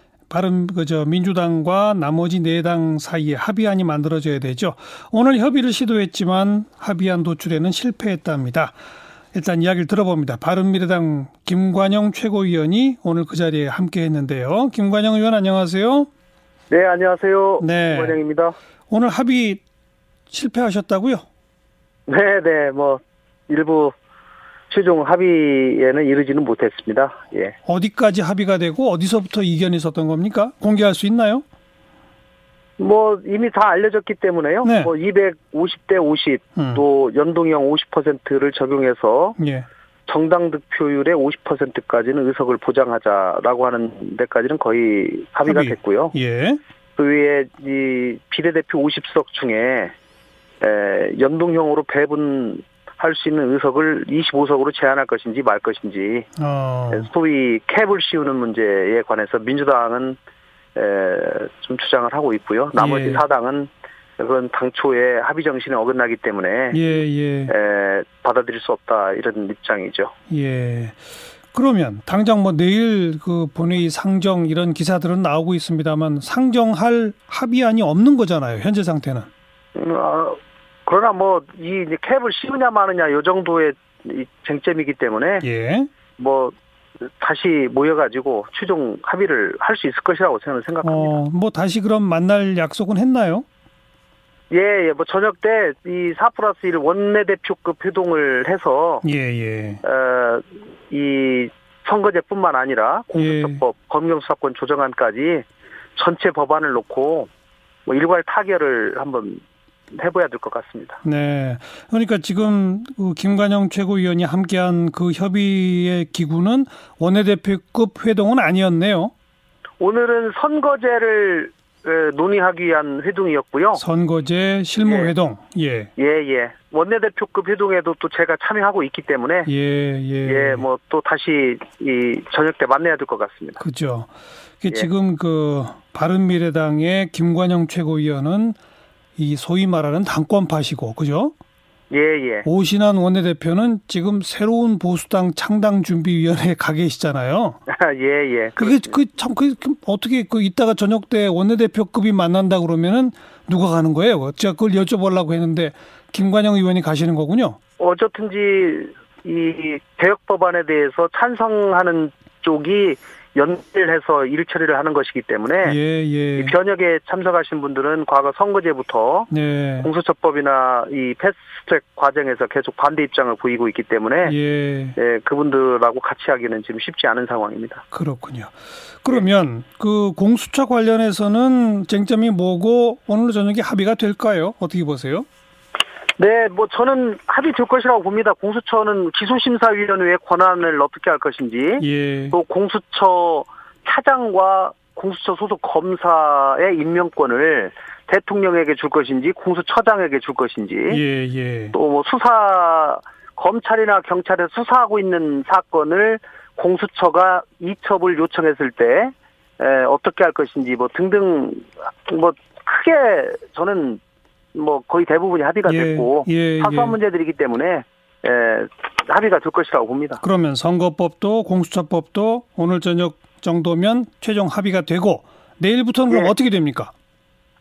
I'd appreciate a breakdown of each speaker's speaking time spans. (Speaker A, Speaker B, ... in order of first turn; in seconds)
Speaker A: 0.3-8.8, 9.3-16.1, 17.6-18.2, 18.9-19.6, 20.3-21.2, 27.6-31.4, 34.6-34.9, 36.5-36.8, 39.4-39.6, 45.5-46.6, 56.4-57.1, 62.8-63.2, 66.7-67.5, 70.3-71.0, 71.5-79.3, 85.4-85.9, 90.8-93.4, 99.0-99.8, 103.2-103.6, 111.0-119.1, 123.7-125.9, 129.4-130.6, 133.6-134.1, 134.6-138.6, 139.2-141.3, 142.4-147.6, 148.6-157.6, 165.6-166.5, 169.3-169.9, 174.2-174.9, 177.9-185.3, 191.8-192.3, 200.9-201.7, 215.7-217.0, 220.2-226.9
Speaker B: 16.7-18.5, 22.1-23.9, 24.7-27.6, 32.8-39.4, 40.1-46.1, 47.0-49.9, 50.6-56.3, 56.9-60.2, 60.7-67.0, 67.5-70.1, 79.7-85.4, 86.2-86.5, 87.0-91.1, 94.5-99.0, 99.8-105.4, 106.0-107.3, 107.9-111.0, 119.8-123.8, 124.8-125.1, 126.0-129.5, 130.2-133.6, 141.9-142.5, 147.7-149.0, 157.8-165.8, 166.4-169.3, 169.8-174.3, 174.9-177.8, 186.2-201.0, 201.7-214.0, 214.5-220.2, 226.1-226.3